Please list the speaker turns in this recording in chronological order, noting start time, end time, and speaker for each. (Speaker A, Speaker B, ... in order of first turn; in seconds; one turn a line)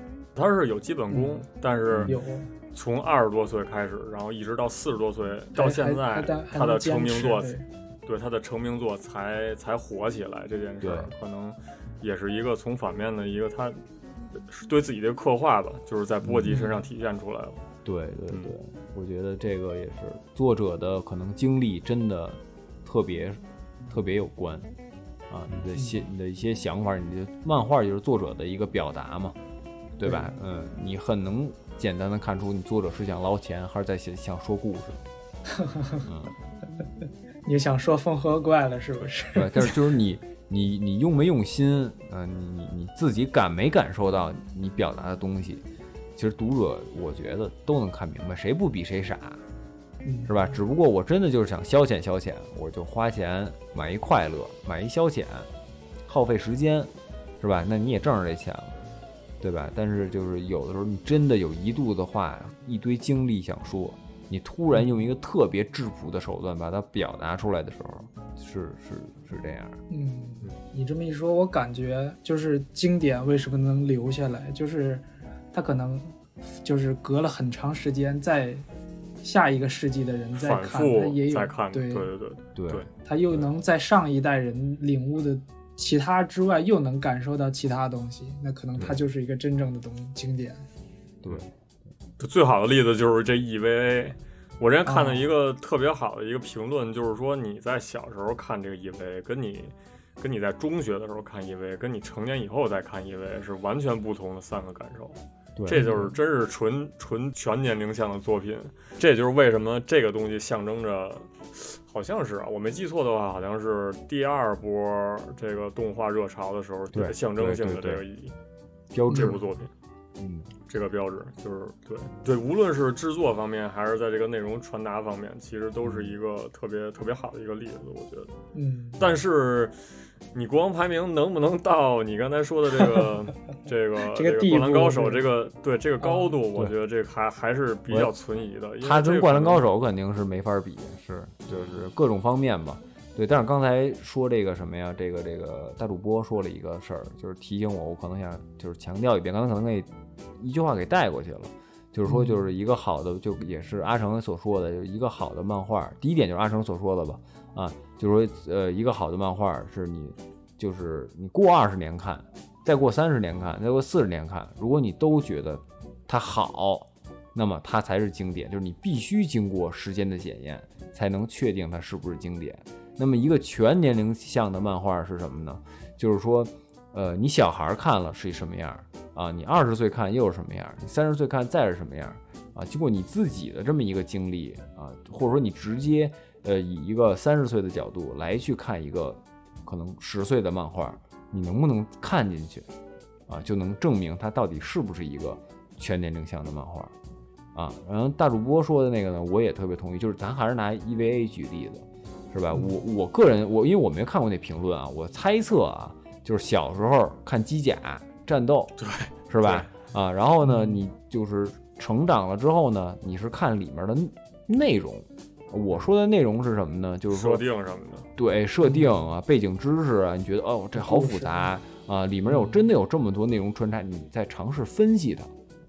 Speaker A: 0.3-2.2
Speaker B: 1.1-1.4
Speaker C: 1.9-2.2
Speaker B: 2.1-2.5
Speaker A: 2.7-13.8
Speaker B: 5.5-7.6
Speaker C: 10.8-11.1
Speaker A: 14.3-17.6
Speaker C: 16.2-16.6
Speaker B: 16.5-16.8
Speaker C: 17.9-24.7
Speaker C: 25.3-29.4
Speaker B: 25.8-26.0
Speaker C: 30.0-35.0
Speaker B: 30.1-30.4
Speaker B: 35.6-36.1
Speaker C: 36.0-36.3
Speaker B: 37.5-39.8
Speaker C: 39.4-45.6
Speaker C: 46.2-49.4
Speaker B: 50.0-50.3
Speaker C: 50.3-55.5
Speaker C: 56.1-58.8
Speaker C: 59.4-69.8
Speaker B: 64.7-65.0
Speaker B: 69.9-78.7
Speaker B: 79.2-82.1
Speaker A: 80.4-82.9
Speaker C: 82.6-82.9
Speaker B: 83.0-90.6
Speaker C: 91.2-91.5
Speaker A: 92.2-118.3
Speaker B: 94.9-95.3
Speaker C: 105.6-105.9
Speaker B: 105.7-106.2
Speaker C: 116.9-118.0
Speaker C: 118.9-119.4
Speaker B: 119.1-119.4
Speaker A: 119.1-119.7
Speaker C: 120.2-120.5
Speaker A: 120.7-128.3
Speaker C: 125.8-126.1
Speaker B: 128.6-129.0
Speaker A: 129.0-129.8
Speaker A: 130.3-139.7
Speaker B: 134.1-135.2
Speaker B: 136.0-136.3
Speaker C: 138.8-192.7
Speaker B: 152.1-152.4
Speaker C: 193.3-196.9
Speaker C: 197.6-208.8
Speaker A: 208.8-209.7
Speaker C: 209.3-217.4
Speaker B: 210.4-210.8
Speaker A: 217.1-218.1
Speaker C: 218.2-225.3
Speaker B: 218.6-219.1
Speaker B: 220.8-221.6
Speaker B: 222.3-222.7